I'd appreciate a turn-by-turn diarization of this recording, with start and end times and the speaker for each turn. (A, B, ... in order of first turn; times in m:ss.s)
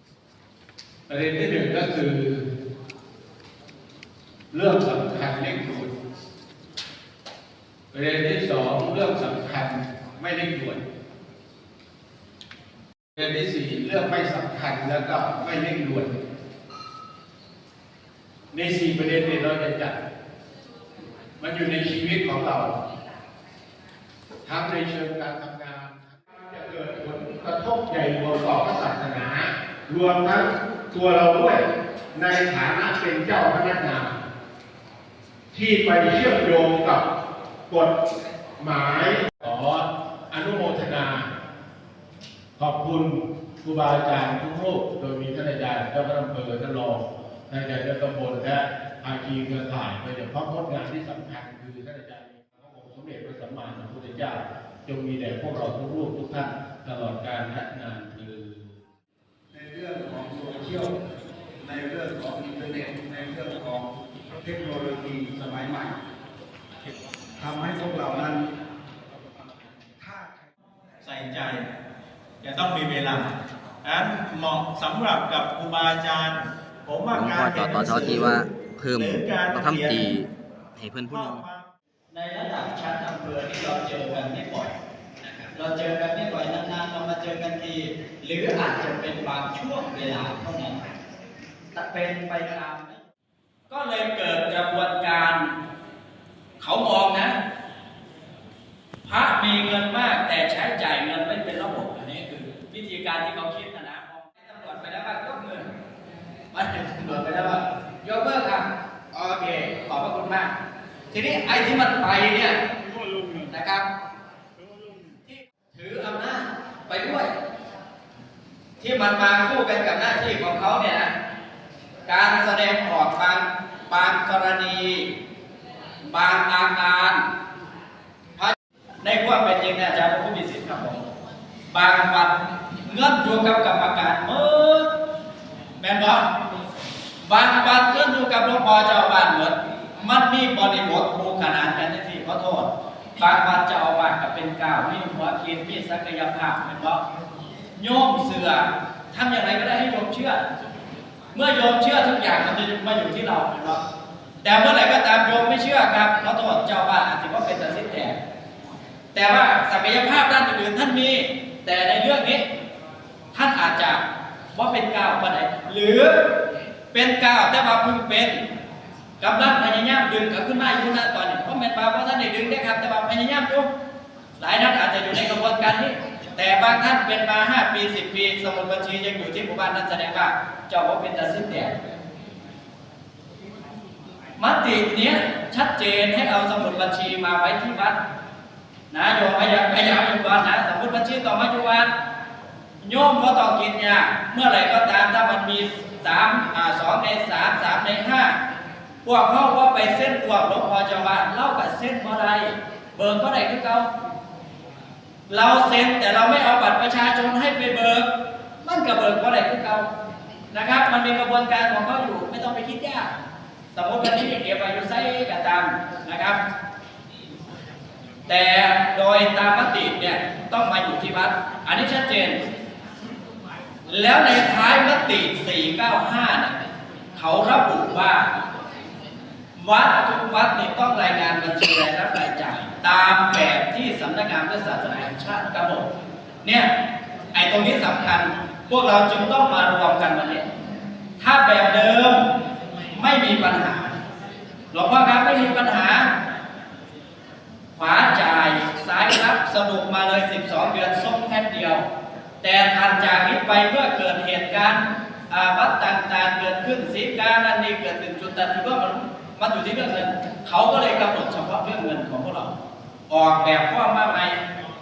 0:01.1-0:02.4 A
0:04.5-0:05.9 A
0:07.9-0:10.8 A
0:13.2-0:16.1 A
0:18.5-0:20.0 A
0:21.4-0:22.7 A
0:24.4-0:34.2 A
0:35.5-0:37.1 A
0:37.7-0:38.0 A
0:38.6-0:41.3 A
0:42.6-0:58.7 A
0:59.5-1:00.9 B
1:01.6-1:03.9 B
1:04.4-1:05.9 B
1:07.4-1:08.5 B
1:10.0-1:10.5 B
1:11.0-1:11.7 C
1:12.4-1:18.4 C
1:17.1-1:21.4 D
1:18.9-1:20.1 C
1:21.0-1:21.7 C
1:22.1-1:30.8 E
1:31.7-1:33.0 E
1:33.7-1:35.5 E
1:36.6-1:37.4 E
1:39.0-1:45.7 E
1:46.5-1:50.5 E
1:51.1-1:52.6 E
1:52.9-1:53.4 B
1:53.5-1:53.9 E
1:54.6-1:54.9 B
1:55.2-1:57.3 E
1:58.8-2:01.1 E
2:02.1-2:05.1 E
2:06.1-2:07.2 E
2:08.4-2:11.0 E
2:11.7-2:14.9 E
2:15.8-2:16.2 E
2:17.2-2:27.0 E
2:27.8-2:30.4 E
2:31.3-2:33.8 E
2:34.4-2:38.2 E
2:39.1-2:42.5 E
2:43.3-2:44.0 E
2:44.5-2:46.3 E
2:46.9-2:48.4 E
2:49.2-2:53.7 E
2:54.4-3:01.7 E
3:04.4-3:08.0 E
3:08.9-3:11.9 E
3:12.8-3:18.4 E
3:19.0-3:23.9 E
3:25.3-3:28.1 E
3:28.6-3:29.9 E
3:30.5-3:33.1 E
3:33.7-3:36.4 E
3:38.3-3:42.4 E
3:43.9-3:46.6 E
3:47.1-3:48.3 E
3:49.6-3:55.9 E
3:56.4-3:56.7 E
3:57.3-4:00.5 E
4:01.2-4:02.2 E
4:02.9-4:04.0 E
4:04.7-4:06.1 E
4:07.8-4:11.9 E
4:12.4-4:22.6 E
4:23.1-4:24.4 E